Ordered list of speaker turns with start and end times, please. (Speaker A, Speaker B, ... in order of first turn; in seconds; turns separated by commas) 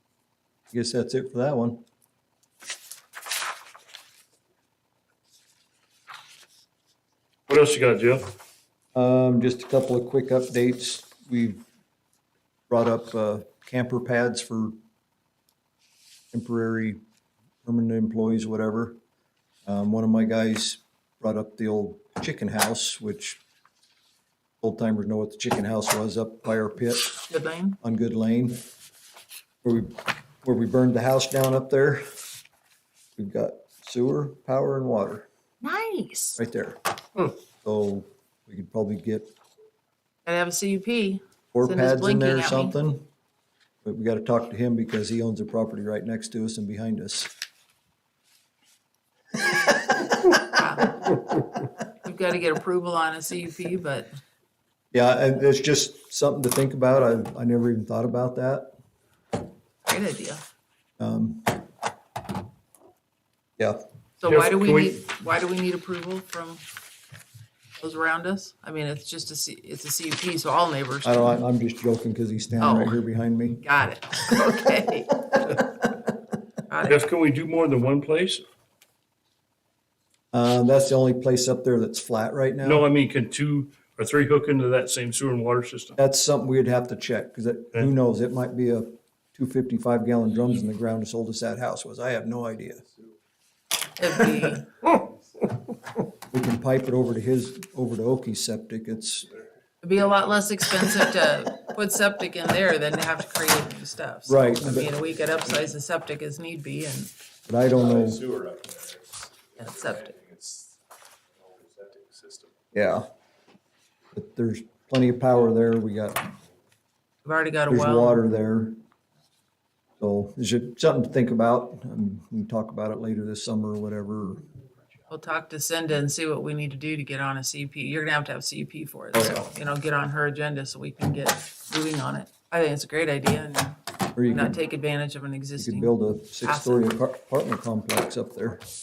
Speaker A: 0.7-1.8, Speaker B: 7.5-8.3, Speaker A: 8.9-11.6, Speaker A: 12.7-14.7, Speaker A: 16.3-17.0, Speaker A: 17.6-19.0, Speaker A: 19.6-23.4, Speaker A: 24.6-27.1, Speaker C: 27.3-27.8, Speaker A: 27.8-28.6, Speaker A: 29.6-32.0, Speaker A: 33.2-35.3, Speaker C: 35.6-36.4, Speaker A: 36.4-39.3, Speaker C: 40.2-42.8, Speaker A: 41.5-43.0, Speaker A: 43.8-47.3, Speaker C: 50.5-51.1, Speaker C: 52.0-54.1, Speaker A: 54.9-58.7, Speaker C: 59.9-60.4, Speaker A: 61.0-61.6, Speaker C: 64.2-66.6, Speaker B: 64.2-64.9, Speaker C: 67.8-71.4, Speaker A: 71.0-73.6, Speaker C: 72.6-73.0, Speaker C: 73.6-75.3, Speaker C: 76.7-77.0, Speaker B: 76.8-78.4, Speaker A: 80.3-82.8, Speaker B: 82.6-86.0, Speaker A: 86.0-92.9, Speaker C: 94.0-94.7, Speaker A: 96.3-99.3, Speaker C: 99.8-107.1, Speaker A: 104.3-105.0, Speaker A: 107.5-108.3, Speaker D: 108.2-109.0, Speaker C: 109.6-110.1, Speaker D: 109.6-110.7, Speaker D: 111.4-112.5, Speaker A: 112.7-113.1, Speaker A: 114.1-116.3, Speaker C: 117.2-118.2, Speaker A: 117.7-118.8, Speaker A: 120.0-124.5, Speaker C: 125.1-136.9, Speaker A: 129.1-129.4, Speaker A: 134.2-134.6, Speaker A: 135.6-138.6